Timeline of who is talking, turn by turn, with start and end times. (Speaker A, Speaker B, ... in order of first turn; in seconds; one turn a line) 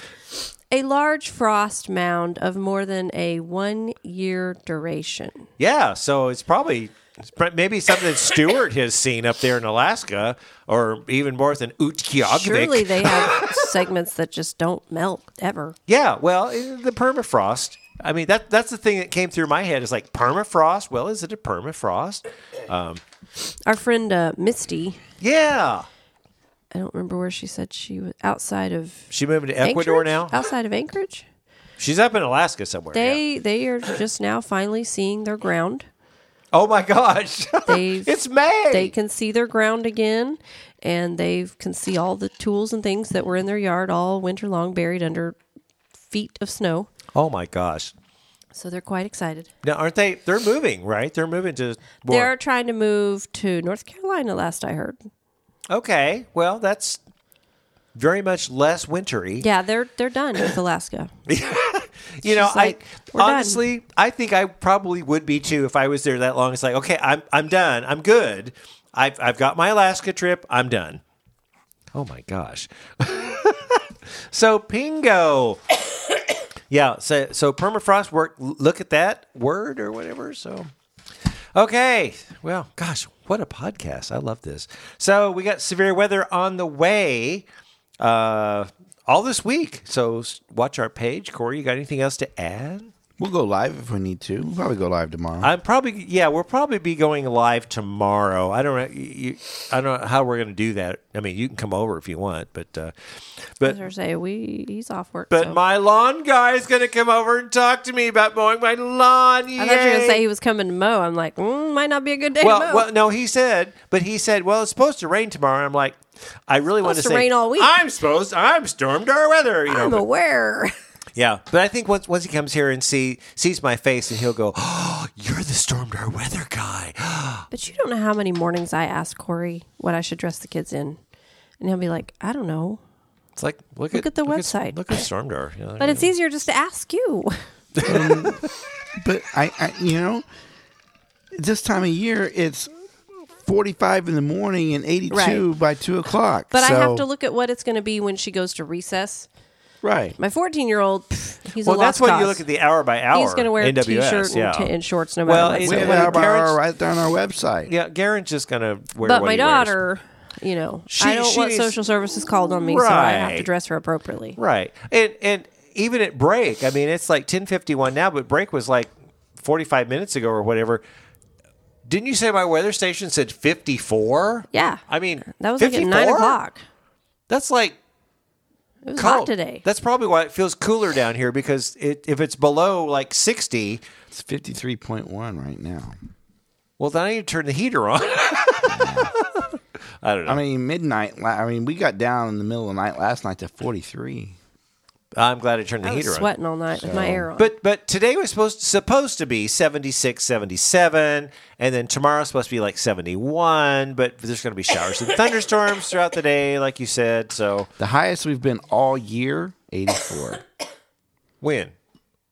Speaker A: 0.7-5.5
Speaker B: 5.6-13.6
Speaker A: 12.2-15.8
Speaker B: 15.9-23.0
Speaker A: 23.6-25.0
Speaker B: 25.2-25.9
Speaker A: 26.7-29.1
Speaker B: 29.1-30.4
Speaker A: 29.6-31.2
Speaker B: 31.8-33.2
Speaker A: 32.9-35.9
Speaker B: 36.5-38.9
Speaker A: 37.7-38.1
Speaker A: 38.7-45.4
Speaker A: 46.1-46.9
Speaker B: 47.1-47.9
Speaker A: 48.5-49.5
Speaker B: 49.6-52.3
Speaker A: 52.1-55.0
Speaker B: 55.7-57.0
Speaker B: 57.9-59.5
Speaker A: 59.4-61.1
Speaker B: 61.3-71.0
Speaker A: 62.2-63.6
Speaker B: 71.9-75.6
Speaker B: 76.7-80.7
Speaker B: 81.5-87.5
Speaker B: 88.0-92.9
Speaker C: 93.2-95.5
Speaker B: 95.4-102.9
Speaker B: 103.4-103.8
Speaker A: 103.6-105.6
Speaker B: 105.3-110.2
Speaker A: 109.6-112.9
Speaker B: 112.4-120.0
Speaker A: 116.8-117.7
Speaker A: 119.7-120.7
Speaker B: 121.2-127.5
Speaker A: 127.5-131.0
Speaker A: 131.6-132.8
Speaker B: 133.4-136.1
Speaker A: 133.9-135.1
Speaker A: 135.8-137.4
Speaker B: 137.8-138.2
Speaker C: 137.8-138.4
Speaker C: 139.0-140.2
Speaker C: 141.3-142.7
Speaker C: 143.4-147.0
Speaker A: 145.1-145.4
Speaker A: 146.5-149.3
Speaker C: 149.8-150.2
Speaker A: 150.2-152.4
Speaker B: 151.6-154.7
Speaker A: 153.1-156.2
Speaker B: 155.2-156.6
Speaker C: 155.6-157.7
Speaker B: 157.7-159.8
Speaker A: 159.0-164.4
Speaker B: 160.9-161.8
Speaker B: 162.4-163.5
Speaker B: 164.4-170.8
Speaker B: 171.8-176.4
Speaker A: 174.5-176.6
Speaker B: 177.3-177.8
Speaker A: 178.8-179.6
Speaker B: 178.9-183.8
Speaker C: 184.1-185.9
Speaker B: 186.8-189.5
Speaker C: 188.7-189.1
Speaker B: 190.0-190.4
Speaker C: 190.3-194.4
Speaker B: 195.2-196.3
Speaker A: 195.8-197.5
Speaker C: 196.8-197.3
Speaker B: 197.4-207.7
Speaker C: 207.8-210.4
Speaker B: 211.4-211.7